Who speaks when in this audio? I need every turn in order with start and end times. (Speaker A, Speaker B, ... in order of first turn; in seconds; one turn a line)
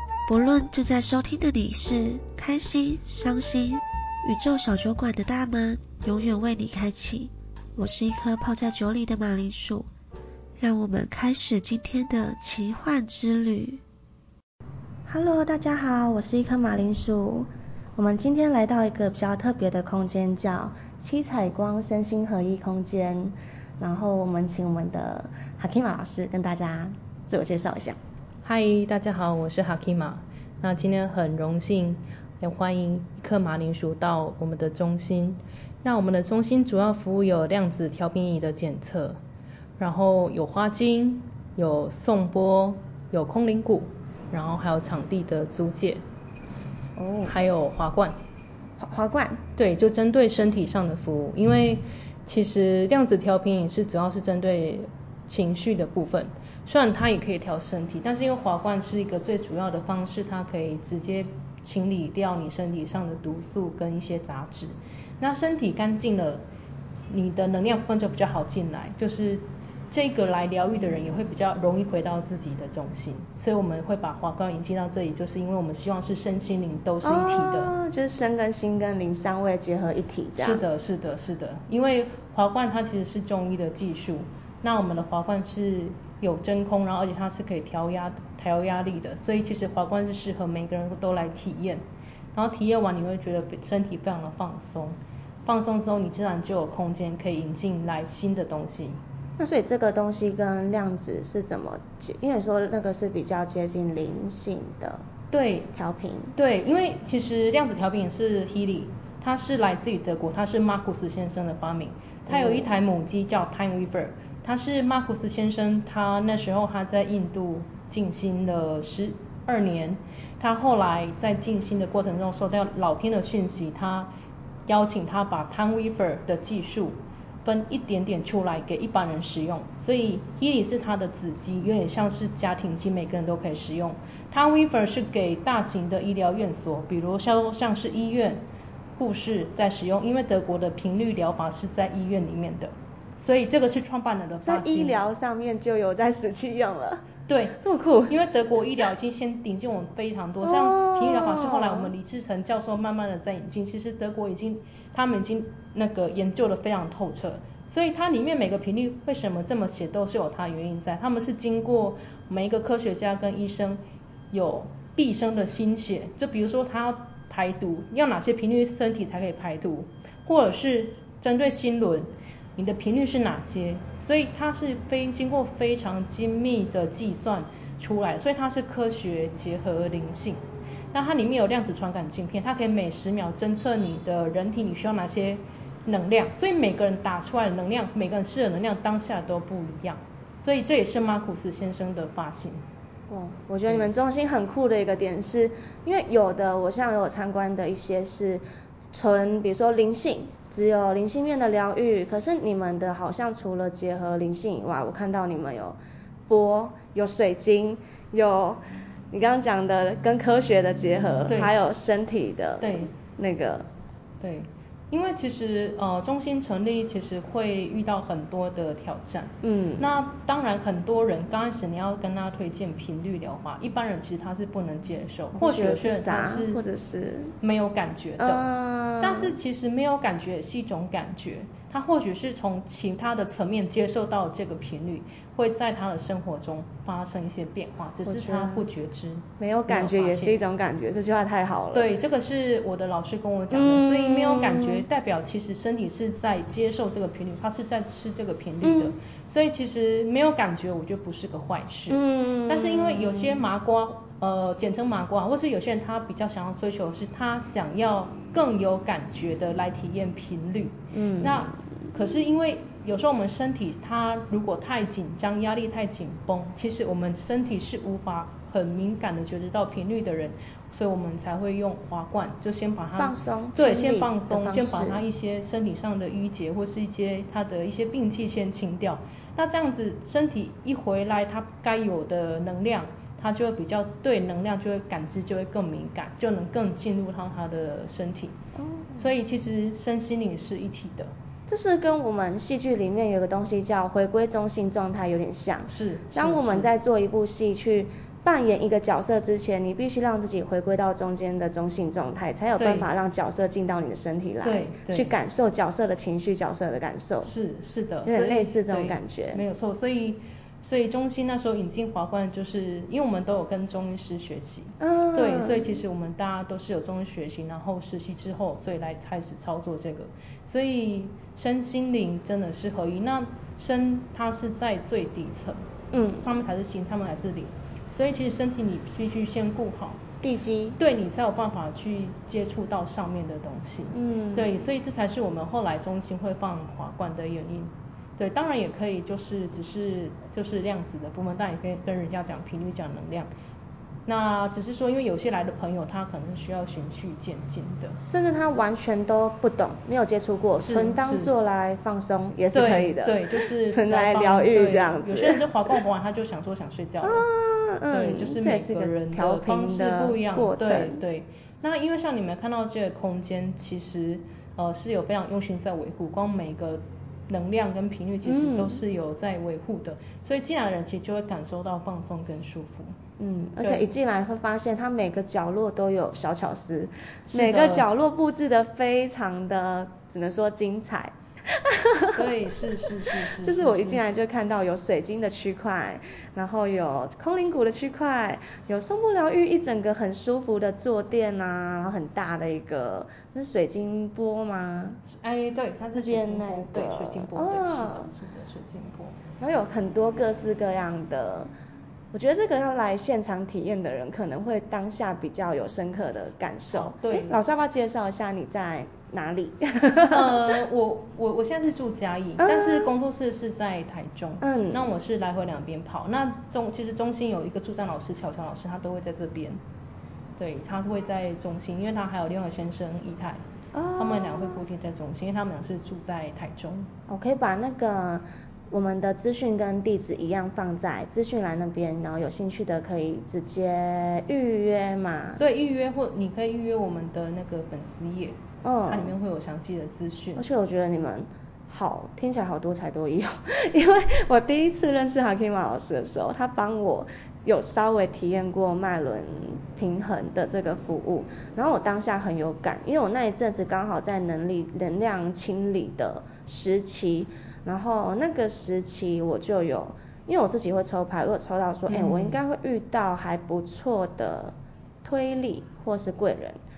Speaker A: 0.3-9.9
Speaker A: 10.6-13.8
Speaker B: 15.1-28.0
Speaker C: 28.4-39.2
Speaker C: 39.8-46.0
Speaker B: 47.0-47.4
Speaker C: 47.3-48.2
Speaker B: 48.8-49.4
Speaker C: 49.6-66.4
Speaker C: 67.1-77.8
Speaker B: 77.0-80.6
Speaker C: 80.4-91.8
Speaker C: 92.3-99.0
Speaker B: 99.4-105.0
Speaker C: 105.3-105.7
Speaker B: 105.7-106.3
Speaker C: 106.3-124.1
Speaker B: 112.3-112.7
Speaker C: 124.7-138.4
Speaker C: 139.0-145.1
Speaker B: 144.4-147.1
Speaker C: 147.3-163.8
Speaker B: 147.6-148.2
Speaker B: 150.4-151.9
Speaker C: 164.3-180.4
Speaker C: 180.9-192.6
Speaker B: 193.1-198.4
Speaker B: 198.9-208.6
Speaker B: 209.1-213.7
Speaker C: 211.3-211.5
Speaker C: 212.6-212.9
Speaker C: 214.2-226.6
Speaker B: 219.4-219.9
Speaker B: 225.3-227.3
Speaker C: 227.4-228.4
Speaker B: 228.2-229.4
Speaker C: 229.0-240.4
Speaker B: 238.1-238.7
Speaker B: 239.4-241.9
Speaker C: 241.7-288.4
Speaker B: 243.5-244.8
Speaker B: 248.6-248.9
Speaker B: 251.9-253.4
Speaker B: 260.9-261.4
Speaker B: 273.0-275.0
Speaker B: 288.6-289.0
Speaker C: 289.0-291.1
Speaker B: 291.5-307.3
Speaker C: 295.7-296.7
Speaker C: 302.6-302.9
Speaker C: 304.4-305.1
Speaker C: 307.2-325.6
Speaker B: 308.1-309.4
Speaker B: 314.8-315.8
Speaker B: 325.9-326.2
Speaker C: 326.2-330.0
Speaker B: 330.2-330.8
Speaker C: 330.8-343.3
Speaker B: 333.9-334.5
Speaker C: 344.1-348.0
Speaker B: 348.1-355.4
Speaker C: 350.6-351.4
Speaker C: 352.5-357.3
Speaker B: 357.0-361.0
Speaker C: 357.9-372.9
Speaker B: 368.2-368.8
Speaker B: 373.2-382.3
Speaker C: 377.3-377.9
Speaker C: 382.1-384.0
Speaker B: 383.1-395.0
Speaker C: 395.0-399.2
Speaker B: 396.0-398.1
Speaker B: 399.4-401.5
Speaker B: 402.1-410.4
Speaker C: 406.7-407.4
Speaker C: 410.1-419.6
Speaker B: 412.4-412.9
Speaker B: 414.4-414.9
Speaker C: 420.4-423.4
Speaker B: 423.7-424.6
Speaker C: 424.0-426.9
Speaker B: 427.1-435.4
Speaker C: 435.4-438.4
Speaker B: 438.6-439.1
Speaker C: 438.9-440.4
Speaker B: 440.4-466.6
Speaker C: 461.9-462.4